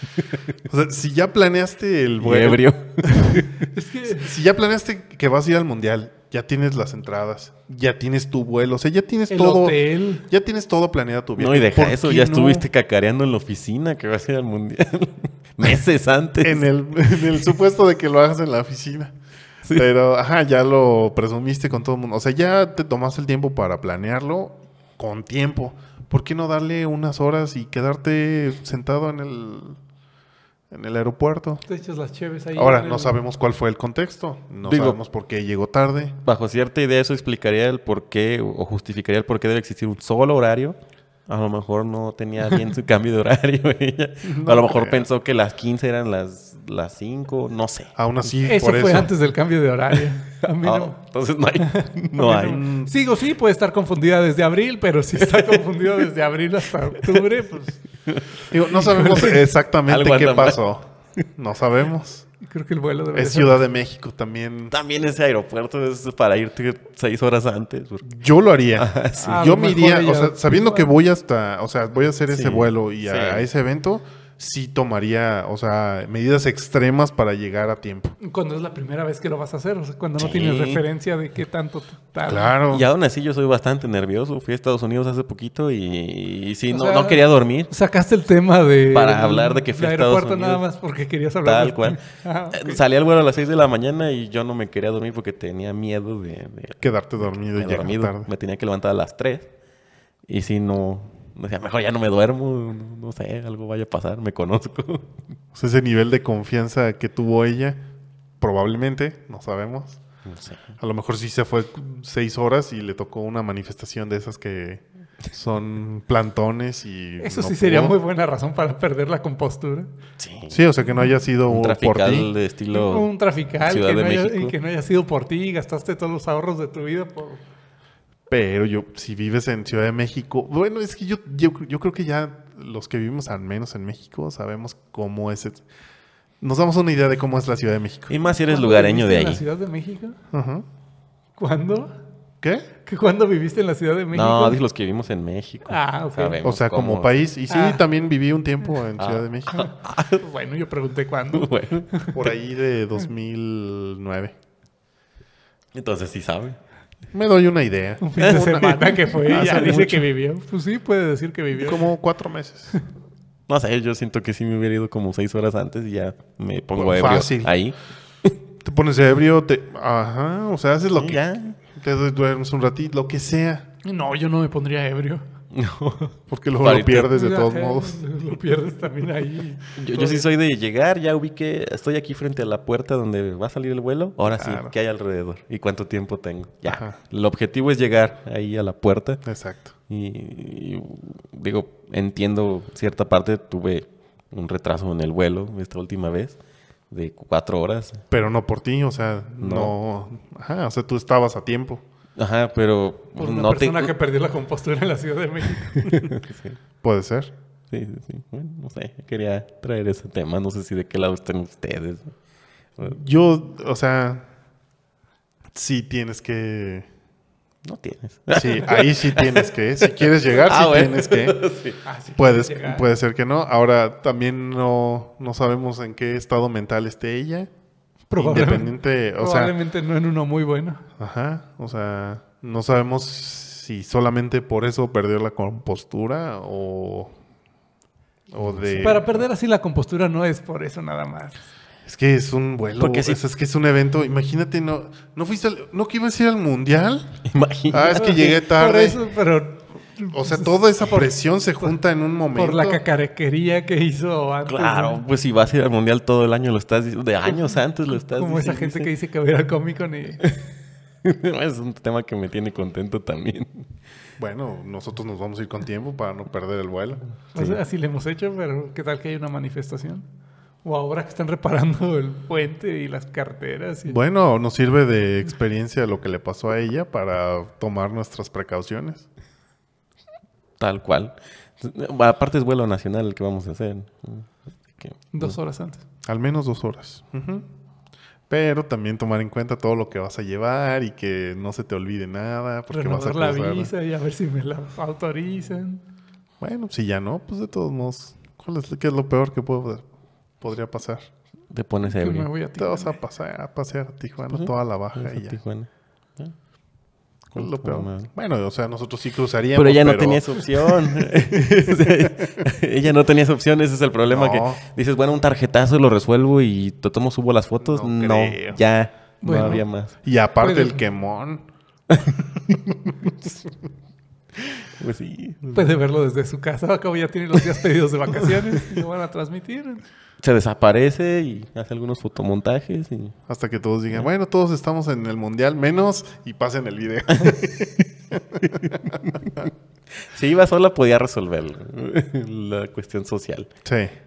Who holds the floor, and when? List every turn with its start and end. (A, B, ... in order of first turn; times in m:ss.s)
0:00.6-0:03.4 A
0:02.2-0:03.7 B
0:03.6-0:04.3 C
0:04.0-0:12.7 A
0:09.3-0:10.3 C
0:11.4-0:17.3 B
0:16.4-0:19.2 A
0:19.7-0:29.8 A
0:30.7-0:31.6 A
0:31.7-0:33.2 C
0:32.6-0:36.2 A
0:34.6-0:35.0 B
0:36.2-0:48.5 B
0:44.2-0:45.1 A
0:48.0-0:49.1 A
0:48.4-0:51.0 C
0:50.4-0:52.6 B
0:51.6-0:57.8 C
0:52.3-0:52.9 A
0:55.2-0:56.0 B
0:58.5-1:02.3 A
0:58.8-0:59.4 C
0:59.0-0:59.3 B
0:59.9-1:00.6 B
1:02.4-1:03.6 C
1:03.1-1:04.7 A
1:04.7-1:08.1 B
1:08.0-1:18.2 A
1:08.8-1:09.5 B
1:09.2-1:11.0 C
1:12.3-1:13.5 B
1:18.2-1:22.6 C
1:20.2-1:20.8 B
1:22.3-1:22.8 A
1:22.7-1:27.7 B
1:26.7-1:32.8 C
1:28.9-1:30.6 B
1:31.4-1:32.0 B
1:32.5-1:39.5 B
1:36.8-1:38.3 A
1:40.3-1:45.2 B
1:45.5-1:47.8 A
1:48.4-1:50.0 A
1:50.2-1:50.6 B
1:50.8-1:58.0 A
1:57.2-1:59.9 C
2:00.2-2:00.6 B
2:00.5-2:02.3 A
2:01.5-2:03.1 B
2:02.7-2:07.4 C
2:03.6-2:04.6 B
2:08.3-2:15.6 A
2:16.4-2:18.1 A
2:18.1-2:19.4 B
2:18.4-2:20.2 C
2:20.3-2:20.7 A
2:21.4-2:22.0 C
2:22.4-2:22.7 A
2:22.8-2:24.6 C
2:24.1-2:27.2 B
2:25.7-2:26.4 C
2:26.4-2:29.7 A
2:27.5-2:27.8 C
2:29.0-2:30.2 B
2:30.2-2:32.2 C
2:31.3-2:32.1 B
2:32.1-2:34.4 A
2:35.7-2:36.6 B
2:37.1-2:40.1 A
2:38.0-2:41.9 C
2:38.2-2:39.8 B
2:41.6-2:42.8 A
2:43.5-2:47.8 B
2:46.8-2:47.6 A
2:48.6-2:53.7 A
2:51.0-2:51.6 B
2:53.8-2:55.2 C
2:55.5-2:57.1 B
2:56.3-2:58.0 A
2:57.1-3:00.2 C
2:59.8-3:09.2 B
3:04.3-3:04.7 A
3:06.7-3:07.0 A
3:09.2-3:09.7 A
3:09.9-3:16.4 B
3:16.9-3:18.0 B
3:18.1-3:21.8 A
3:19.4-3:19.7 B
3:22.2-3:23.9 B
3:23.2-3:26.0 C
3:25.7-3:26.6 B
3:26.8-3:27.3 A
3:27.7-3:32.1 B
3:32.8-3:34.3 A
3:35.5-3:36.9 A
3:37.6-3:41.8 B
3:38.3-3:41.4 A
3:41.8-3:42.9 C
3:42.2-3:47.5 A
3:48.1-3:50.8 C
3:48.2-3:49.6 A
3:51.0-3:57.2 A
3:58.3-3:59.2 A
3:58.4-3:59.0 B
3:58.8-4:01.4 C
4:01.8-4:09.0 A
4:02.8-4:03.2 B
4:07.2-4:08.2 B
4:07.9-4:11.1 C
4:10.1-4:12.8 A
4:12.4-4:15.0 C
4:14.5-4:18.9 B
4:17.3-4:20.2 C
4:21.0-4:23.7 B
4:24.2-4:27.5 A
4:27.4-4:30.0 C
4:30.6-4:34.0 C
4:33.9-4:39.1 A
4:40.6-4:45.4 B
4:45.1-4:45.8 C
4:46.1-4:47.5 A
4:48.3-4:53.7 A
4:52.7-4:55.8 C
4:56.4-4:59.9 A
5:00.4-5:01.1 A
5:01.5-5:02.3 B
5:01.8-5:03.0 C
5:02.6-5:05.4 A
5:04.3-5:06.4 B
5:07.3-5:10.4 A
5:07.4-5:08.1 B
5:09.6-5:19.9 B
5:14.1-5:14.6 A
5:17.6-5:18.6 A
5:19.2-5:19.6 C
5:19.3-5:21.5 A
5:20.4-5:20.8 C
5:24.4-5:25.6 B
5:25.5-5:29.8 C
5:30.2-5:33.2 B
5:33.3-5:39.4 A
5:38.5-5:43.5 B
5:43.6-5:44.0 A